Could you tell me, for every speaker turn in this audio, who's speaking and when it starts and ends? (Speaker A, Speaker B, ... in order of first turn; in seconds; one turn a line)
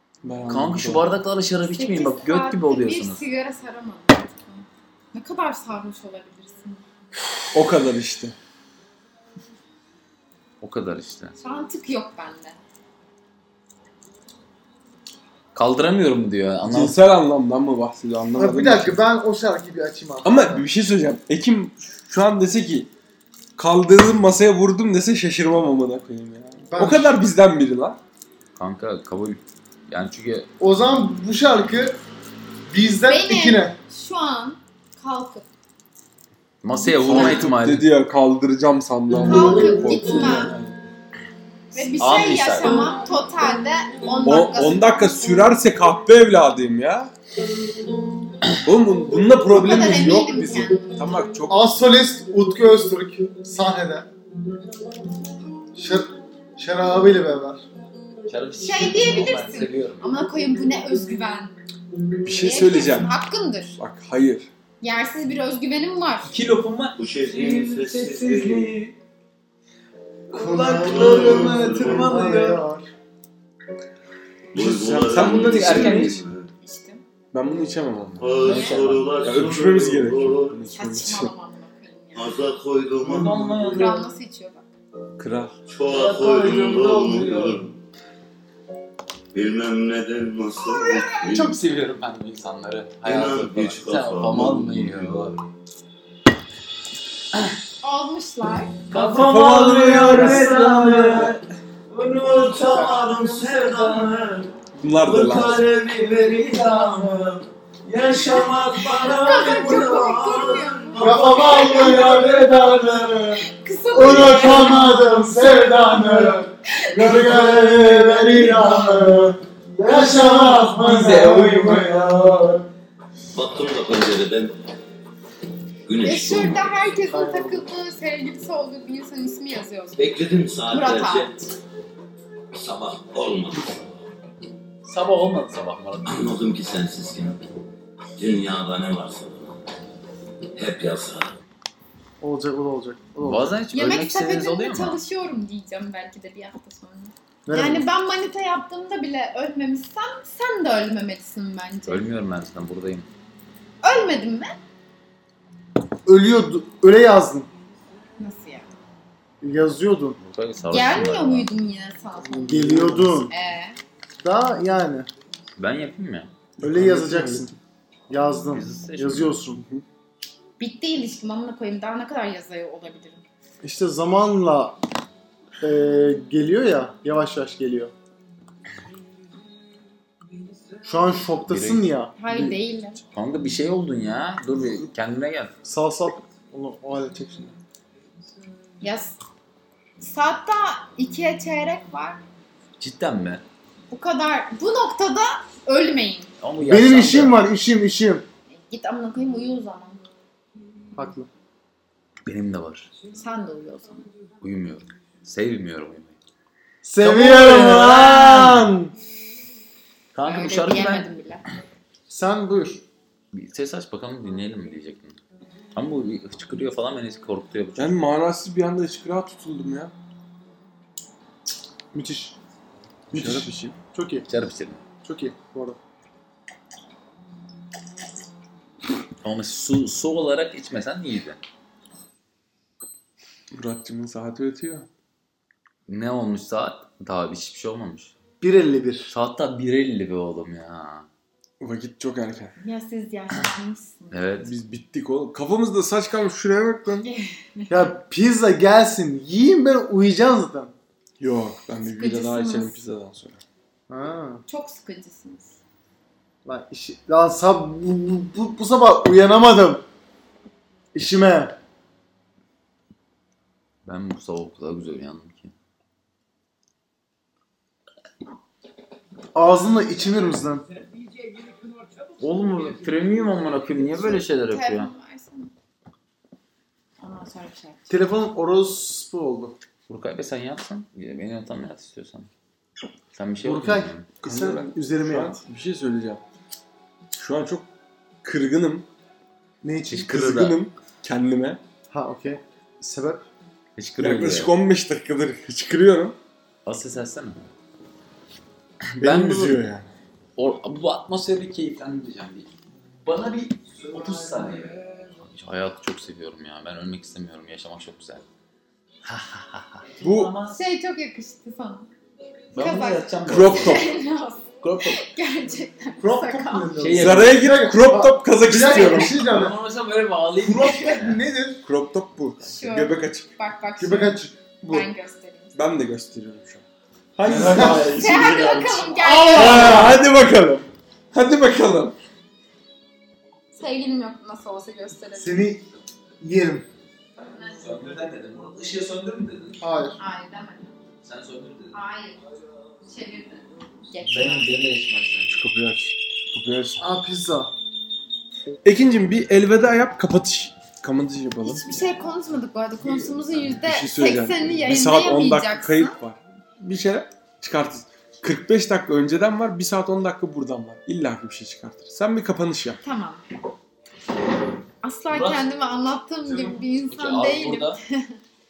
Speaker A: 0.2-1.1
Speaker B: 0.5-3.2
Speaker C: 1.8-6.8
Speaker A: 7.5-8.3
Speaker B: 10.6-11.3
Speaker C: 11.4-12.6
Speaker B: 15.5-17.0
Speaker A: 16.6-19.0
Speaker D: 18.4-20.6
Speaker A: 20.2-22.9
Speaker A: 23.6-28.0
Speaker D: 26.7-27.1
Speaker B: 28.6-30.5
Speaker D: 30.6-32.0
Speaker D: 32.7-33.8
Speaker C: 33.0-35.4
Speaker B: 36.6-37.9
Speaker A: 37.0-40.8
Speaker C: 37.0-37.4
Speaker C: 39.2-40.5
Speaker D: 39.3-39.7
Speaker C: 41.7-45.2
Speaker B: 41.8-42.9
Speaker A: 44.2-47.1
Speaker A: 48.6-51.7
Speaker C: 49.5-51.1
Speaker D: 51.5-54.1
Speaker D: 55.7-57.7
Speaker B: 58.3-60.2
Speaker C: 58.6-61.6
Speaker A: 62.2-63.1
Speaker C: 62.4-63.8
Speaker A: 63.8-64.5
Speaker C: 64.8-66.3
Speaker B: 66.3-68.9
Speaker E: 67.0-68.7
Speaker B: 70.3-72.6
Speaker D: 70.3-72.9
Speaker E: 70.7-72.4
Speaker E: 74.5-76.5
Speaker A: 74.5-76.2
Speaker B: 75.1-76.2
Speaker C: 76.6-77.0
Speaker A: 77.3-78.3
Speaker E: 78.2-80.6
Speaker B: 78.4-79.1
Speaker C: 78.4-78.9
Speaker A: 79.2-81.3
Speaker C: 80.7-82.3
Speaker E: 82.1-83.9
Speaker B: 83.0-84.1
Speaker C: 83.7-84.7
Speaker A: 85.2-85.6
Speaker E: 85.7-87.7
Speaker B: 85.9-87.7
Speaker E: 89.3-91.5
Speaker C: 90.6-91.4
Speaker B: 91.2-95.4
Speaker E: 93.0-95.3
Speaker C: 97.8-98.8
Speaker B: 98.9-101.3
Speaker A: 98.9-101.3
Speaker E: 99.2-101.4
Speaker E: 101.9-112.6
Speaker D: 102.7-103.0
Speaker A: 104.8-105.6
Speaker B: 106.7-107.1
Speaker C: 108.8-112.3
Speaker D: 111.0-122.6
Speaker C: 113.3-115.0
Speaker C: 116.8-117.2
Speaker E: 117.8-118.7
Speaker B: 120.5-122.0
Speaker E: 123.3-124.5
Speaker E: 125.8-126.8
Speaker C: 126.0-130.1
Speaker D: 127.0-127.7
Speaker E: 130.0-131.3
Speaker C: 130.7-131.5
Speaker E: 132.5-134.0
Speaker B: 134.8-136.3
Speaker E: 136.0-137.4
Speaker E: 138.2-139.6
Speaker E: 140.6-141.4
Speaker D: 142.2-143.6
Speaker B: 143.2-145.0
Speaker C: 143.7-152.1
Speaker D: 147.4-147.8
Speaker B: 151.9-153.1
Speaker C: 153.8-154.6
Speaker D: 156.1-157.5
Speaker C: 158.2-158.7
Speaker D: 159.4-160.2
Speaker B: 160.2-161.5
Speaker C: 160.7-163.8
Speaker A: 162.3-163.3
Speaker D: 162.4-163.3
Speaker D: 164.2-165.1
Speaker B: 165.6-166.3
Speaker A: 166.6-167.6
Speaker D: 166.6-167.6
Speaker D: 168.1-169.6
Speaker B: 168.1-169.4
Speaker C: 170.6-173.2
Speaker D: 173.6-174.8
Speaker D: 175.6-177.9
Speaker D: 180.8-182.6
Speaker B: 181.4-181.9
Speaker C: 182.2-183.0
Speaker B: 183.1-185.5
Speaker D: 185.6-187.5
Speaker C: 188.8-189.2
Speaker C: 190.0-192.2
Speaker B: 192.8-193.4
Speaker C: 193.9-196.3
Speaker B: 196.4-197.4
Speaker D: 196.6-198.2
Speaker C: 198.5-200.0
Speaker D: 200.9-201.3
Speaker B: 202.2-202.9
Speaker C: 203.1-204.1
Speaker B: 204.4-206.2
Speaker D: 206.8-208.9
Speaker B: 207.0-208.7
Speaker B: 210.1-211.1
Speaker C: 210.2-211.4
Speaker D: 212.1-212.8
Speaker B: 213.3-215.2
Speaker B: 215.7-217.9
Speaker A: 217.8-219.9
Speaker D: 221.9-222.3
Speaker A: 223.1-223.8
Speaker D: 223.1-224.2
Speaker B: 224.3-224.8
Speaker D: 225.0-225.8
Speaker B: 229.2-231.4
Speaker A: 233.5-234.9
Speaker B: 235.9-238.1
Speaker D: 238.4-239.1
Speaker B: 239.1-241.1
Speaker A: 241.6-242.5
Speaker C: 242.6-244.2
Speaker B: 244.1-244.5
Speaker A: 244.4-247.1
Speaker C: 247.1-247.9
Speaker D: 247.7-250.7
Speaker A: 251.2-253.4
Speaker C: 251.8-252.8
Speaker D: 253.9-254.4
Speaker C: 254.5-255.5
Speaker D: 256.4-259.8
Speaker D: 260.9-261.6
Speaker B: 263.8-265.5
Speaker D: 269.3-270.6
Speaker B: 272.2-274.9
Speaker C: 273.9-275.5
Speaker C: 277.0-277.8
Speaker D: 277.9-279.6
Speaker B: 279.9-282.3
Speaker B: 283.1-284.1
Speaker D: 283.4-285.4
Speaker A: 284.2-286.2
Speaker A: 287.1-287.7
Speaker A: 288.2-288.9
Speaker D: 289.6-290.2
Speaker A: 289.9-291.6
Speaker B: 290.1-290.6
Speaker D: 291.9-293.2
Speaker B: 293.8-294.6
Speaker A: 294.0-296.1
Speaker B: 296.6-297.4
Speaker B: 298.9-299.6
Speaker A: 299.0-299.9
Speaker B: 300.4-302.5
Speaker B: 303.0-308.2
Speaker B: 309.0-310.6
Speaker A: 310.0-310.3
Speaker C: 310.5-311.9
Speaker B: 312.5-314.0
Speaker C: 312.5-317.0
Speaker A: 313.2-313.9
Speaker B: 314.6-315.0
Speaker D: 316.0-319.6
Speaker B: 316.8-317.4
Speaker A: 316.9-319.3
Speaker B: 318.7-321.2
Speaker D: 320.4-321.6
Speaker A: 321.6-323.3
Speaker C: 322.5-325.5
Speaker D: 323.8-324.9
Speaker A: 325.5-326.6
Speaker A: 327.1-331.9
Speaker D: 327.2-327.9
Speaker C: 327.8-329.9
Speaker D: 329.0-330.0
Speaker C: 333.5-335.5
Speaker D: 335.1-335.6
Speaker D: 336.2-336.7
Speaker B: 337.4-339.6
Speaker D: 339.6-340.0
Speaker C: 340.0-340.8
Speaker B: 341.0-341.8
Speaker C: 341.7-342.2
Speaker C: 342.9-344.5
Speaker B: 344.0-345.4
Speaker A: 345.3-346.8
Speaker D: 346.8-347.5
Speaker A: 348.6-351.8
Speaker C: 351.4-355.9
Speaker A: 353.5-362.8
Speaker C: 362.8-363.2
Speaker C: 364.8-368.2
Speaker B: 365.1-365.5
Speaker B: 366.2-367.8